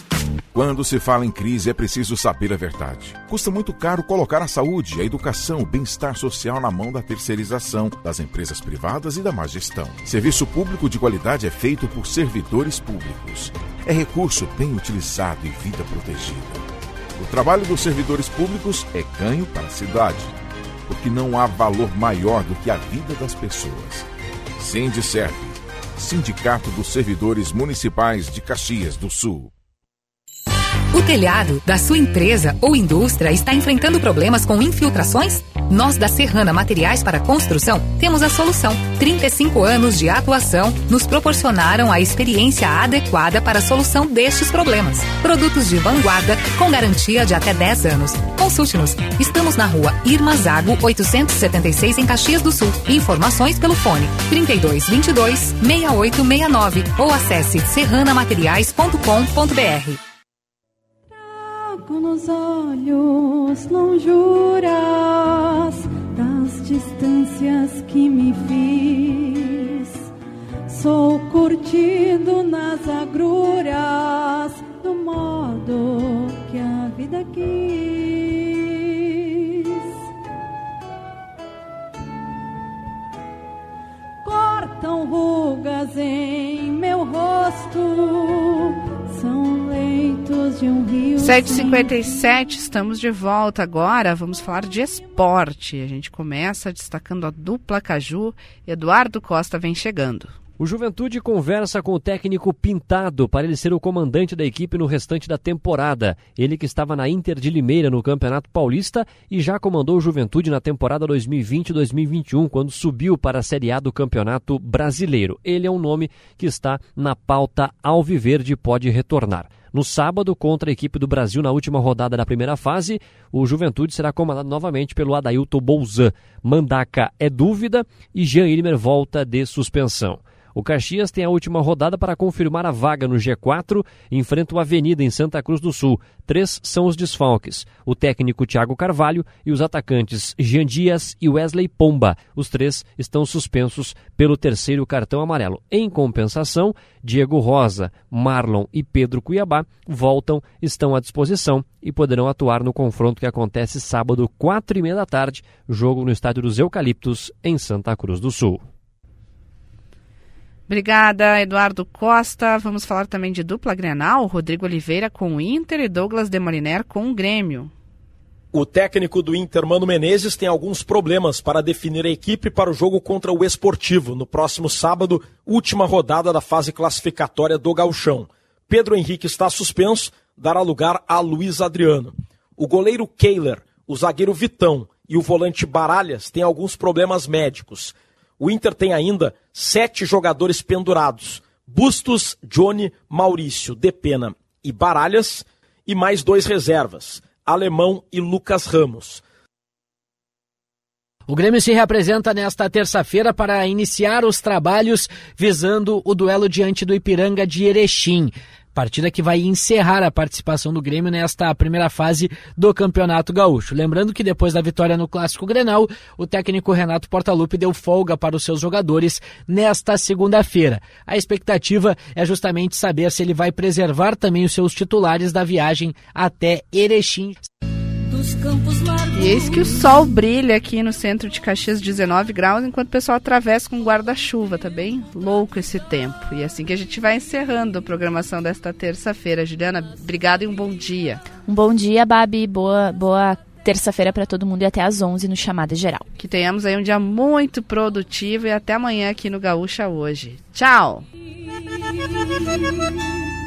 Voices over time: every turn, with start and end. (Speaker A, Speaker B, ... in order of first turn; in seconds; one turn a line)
Speaker A: 0.5-16.6
Speaker A: 17.2-24.1
Speaker A: 24.6-29.5
Speaker B: 30.9-60.0
Speaker C: 61.9-62.9
Speaker C: 66.9-67.3
Speaker C: 70.7-71.0
Speaker C: 71.5-73.0
Speaker C: 84.2-84.9
Speaker C: 85.6-86.0
Speaker C: 89.1-91.9
Speaker D: 91.2-100.3
Speaker E: 100.6-158.6
Speaker D: 160.7-167.7
Speaker F: 168.5-199.2
Speaker G: 201.3-227.3
Speaker C: 228.1-230.0
Speaker D: 229.1-241.2
Speaker H: 241.5-246.0
Speaker D: 246.2-251.1